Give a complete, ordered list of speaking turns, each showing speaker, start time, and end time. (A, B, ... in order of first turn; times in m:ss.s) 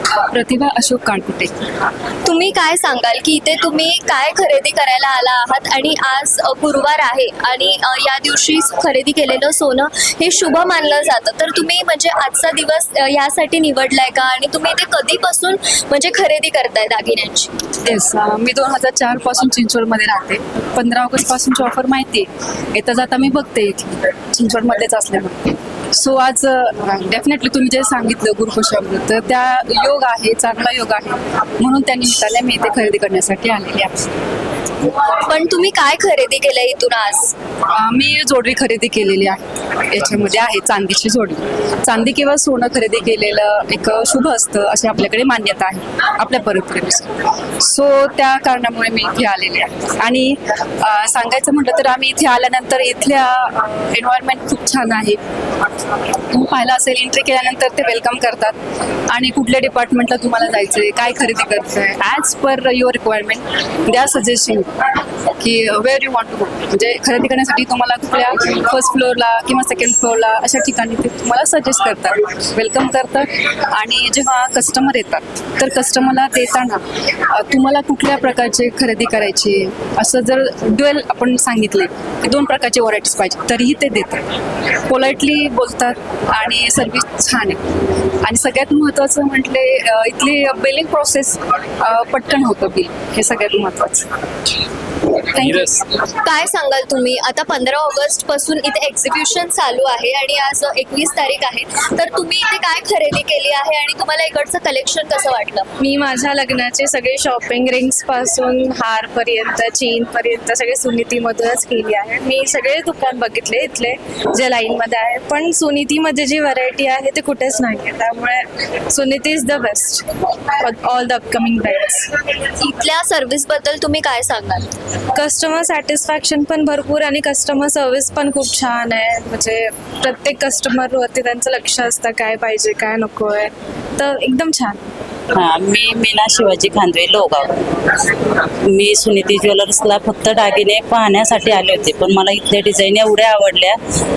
0:00.3-0:01.6 A
0:02.2-0:17.5 B
0:17.8-0:34.1 A
0:35.2-0:37.3 B
0:37.7-0:55.2 A
0:56.3-0:58.6 A
0:59.1-1:04.7 A
1:05.4-1:24.2 A
1:24.8-1:27.7 A
1:28.2-1:34.1 A
1:35.3-1:35.9 A
1:36.2-1:45.7 B
1:45.8-2:00.1 C
2:00.6-2:02.0 C
2:02.6-2:04.7 B
2:05.2-2:14.9 C
2:15.3-2:17.6 D
2:18.7-2:23.8 D